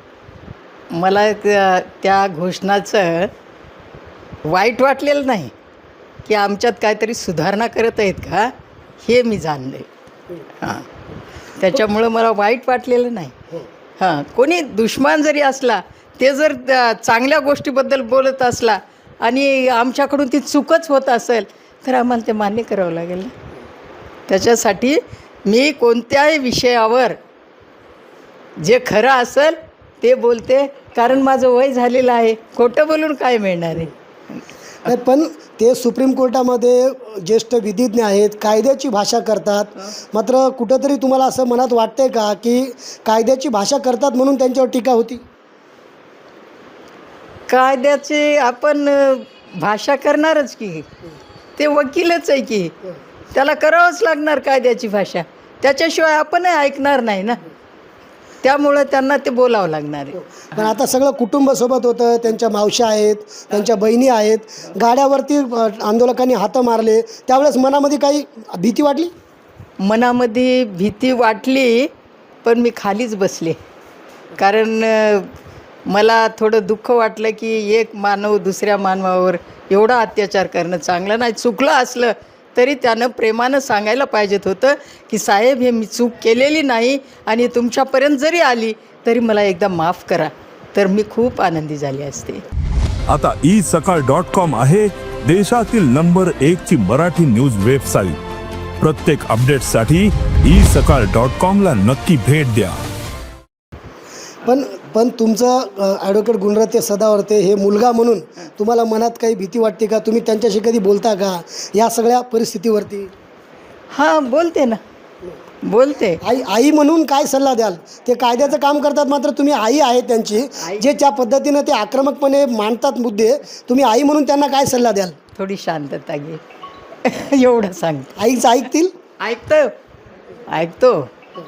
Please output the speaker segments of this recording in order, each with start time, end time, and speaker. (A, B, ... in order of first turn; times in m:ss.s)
0:00.9-0:03.3 A
0:04.4-0:05.5 A
0:06.2-0:08.5 A
0:09.0-0:09.8 A
0:10.5-0:10.9 A
0:11.6-0:13.3 A
0:14.0-0:23.3 A
0:24.3-0:27.2 A
0:28.6-0:34.4 A
0:34.8-0:45.2 B
0:47.5-0:50.8 A
0:51.6-0:52.7 A
0:53.3-0:57.4 A
0:58.4-1:00.7 A
1:00.5-1:09.1 B
1:09.8-1:11.9 A
1:12.4-1:13.6 A
1:14.4-1:15.3 A
1:15.9-1:32.4 A
1:33.1-1:38.2 C
1:38.8-1:42.8 C
1:44.4-1:53.1 B
1:53.9-1:54.8 A
1:55.6-1:56.2 A
1:56.2-2:05.2 B
2:00.6-2:00.8 A
2:05.4-2:06.4 A
2:07.0-2:08.2 A
2:08.2-2:08.9 B
2:09.2-2:09.7 A
2:10.5-2:11.1 A